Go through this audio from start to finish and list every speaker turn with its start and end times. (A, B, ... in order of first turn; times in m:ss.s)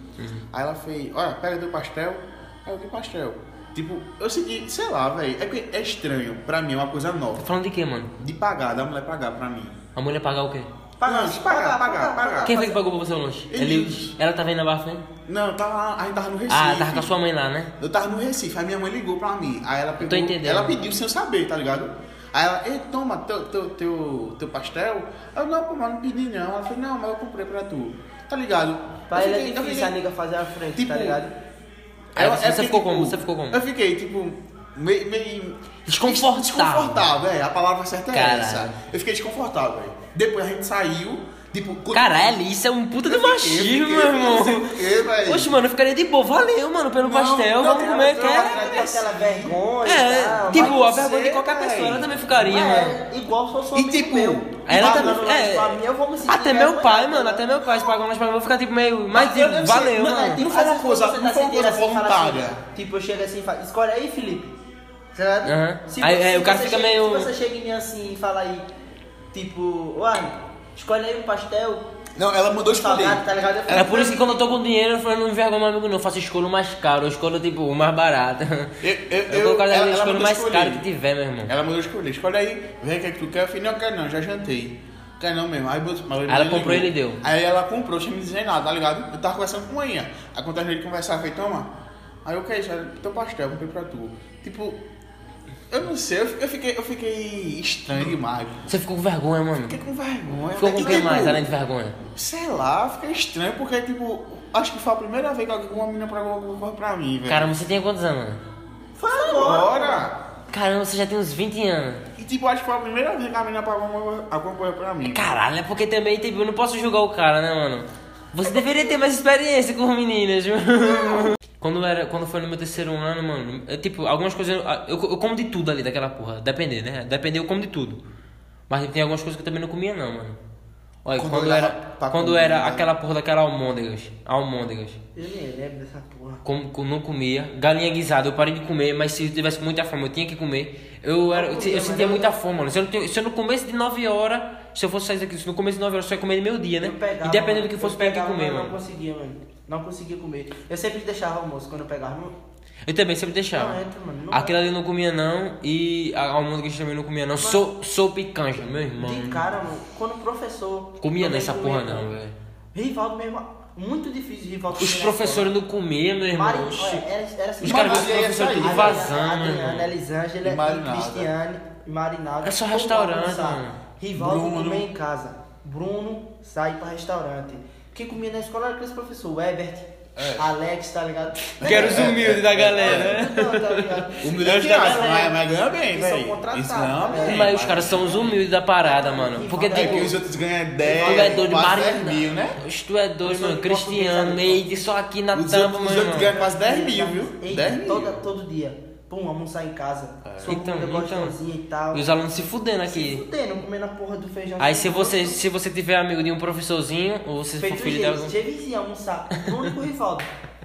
0:00.2-0:00.5 A
0:00.5-0:07.5 B
0:07.4-0:08.1 A
0:08.2-0:09.8 B
0:10.0-0:10.7 A
0:11.0-0:12.8 C
0:11.0-0:12.6 B
0:12.4-0:15.0 A
0:13.5-0:14.2 B
0:15.3-0:17.1 B
0:16.5-0:17.7 A
0:17.8-0:30.0 B
0:20.0-0:20.8 A
0:29.1-0:31.3 C
0:30.8-0:31.2 B
0:32.2-0:33.6 A
0:32.2-0:42.4 B
0:35.9-0:37.1 A
0:38.1-0:38.8 A
0:41.9-0:48.9 A
0:43.0-0:45.6 B
0:47.0-0:49.6 B
0:47.6-0:50.9 C
0:49.8-0:53.0 A
0:50.5-0:52.2 B
0:52.3-0:57.8 C
0:53.7-0:55.2 B
0:54.7-1:00.4 A
0:59.1-1:02.6 B
1:00.3-1:04.5 C
1:05.1-1:08.7 C
1:05.4-1:07.3 A
1:09.3-1:11.8 C
1:12.2-1:14.0 B
1:12.7-1:14.4 C
1:13.7-1:21.5 A
1:18.8-1:20.8 B
1:21.5-1:31.7 B
1:26.3-1:27.2 A
1:32.2-1:34.8 B
1:35.7-1:38.7 B
1:38.7-1:39.8 A
1:39.6-1:41.5 B
1:40.6-1:42.0 A
1:42.1-1:47.6 B
1:47.3-1:48.4 A
1:49.0-1:50.1 C
1:49.1-1:50.2 B
1:50.5-1:52.0 A
1:52.2-1:55.3 B
1:55.0-2:08.0 A
1:58.6-1:58.9 B
2:08.7-2:10.4 A
2:11.0-2:15.0 A
2:11.1-2:12.9 B
2:15.2-2:16.4 C
2:16.4-2:28.7 A
2:21.3-2:22.4 C
2:26.8-2:32.3 C
2:32.9-2:33.8 A
2:33.5-2:34.6 C
2:34.3-2:39.4 A
2:39.0-2:42.1 C
2:41.0-2:42.4 A
2:42.8-2:45.5 C
2:44.8-2:47.0 A
2:46.3-3:08.1 C
2:47.6-2:49.9 A
2:47.6-2:49.1 B
2:50.4-2:51.3 B
2:52.4-2:53.8 A
2:54.2-2:54.9 B
3:00.2-3:00.5 B
3:01.6-3:05.3 A
3:01.6-3:03.2 B
3:04.2-3:08.4 B
3:07.2-3:10.1 A
3:08.8-3:11.6 C
3:09.7-3:12.6 B
3:10.9-3:16.3 A
3:13.2-3:14.6 C
3:15.3-3:18.2 B
3:16.1-3:22.3 C
3:20.3-3:21.4 A
3:21.9-3:23.2 A
3:22.9-3:25.4 C
3:24.6-3:28.3 A
3:27.6-3:30.3 C